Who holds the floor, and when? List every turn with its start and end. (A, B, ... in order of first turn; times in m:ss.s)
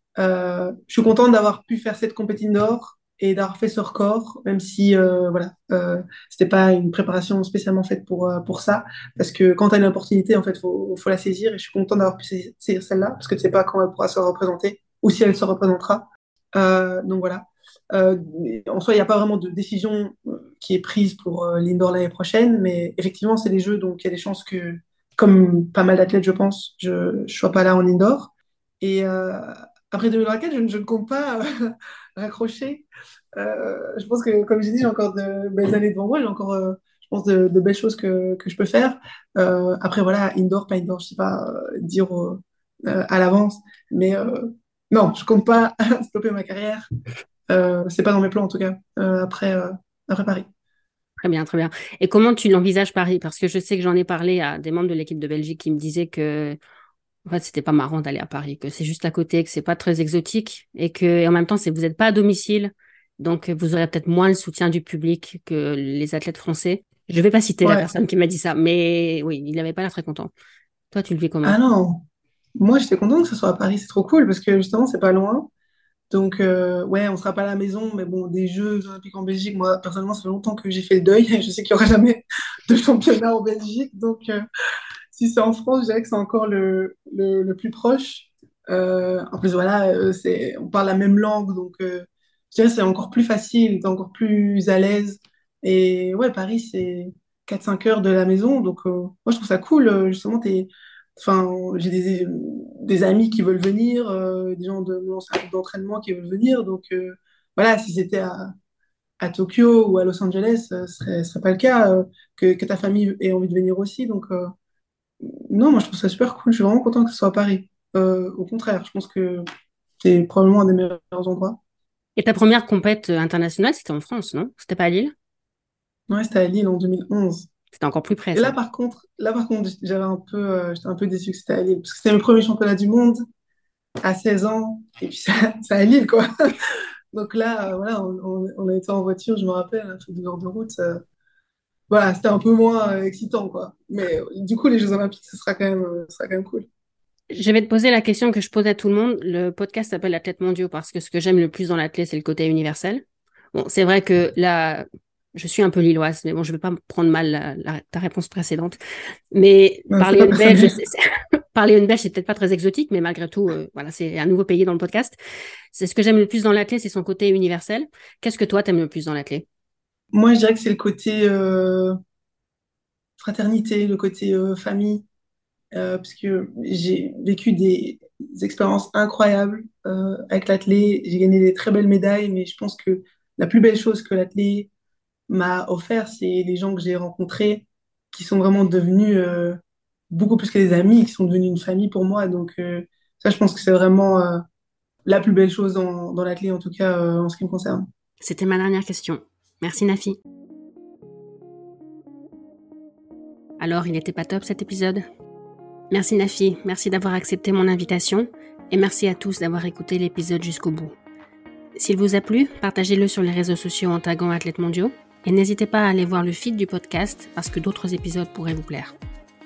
0:00.2-0:32.8 A
0:33.4-0:46.9 A
0:47.5-0:50.4 A
0:51.2-0:56.6 B
0:57.2-1:10.3 B
1:10.9-1:11.6 B
1:11.4-1:12.0 A
1:12.6-1:15.5 A
1:16.1-1:24.4 A
1:25.1-1:48.5 A
1:49.2-1:54.5 A
1:55.2-1:59.4 A
2:00.0-2:01.6 A
2:02.2-2:05.1 B
2:06.1-2:07.5 A
2:07.7-2:08.6 B
2:08.3-2:13.2 A
2:14.0-2:16.3 A
2:17.1-2:21.0 A
2:21.9-2:26.6 A
2:27.3-2:38.8 B
2:39.3-2:45.2 B
2:39.9-2:40.7 A
2:45.7-2:49.4 B
2:50.1-2:52.0 A
2:53.2-2:55.0 A
2:55.7-3:04.7 A
3:05.3-3:09.6 A
3:10.1-3:14.4 A
3:15.0-3:17.9 A
3:18.2-3:20.2 B
3:23.6-3:25.0 B
3:25.9-3:30.9 B
3:31.8-3:38.9 B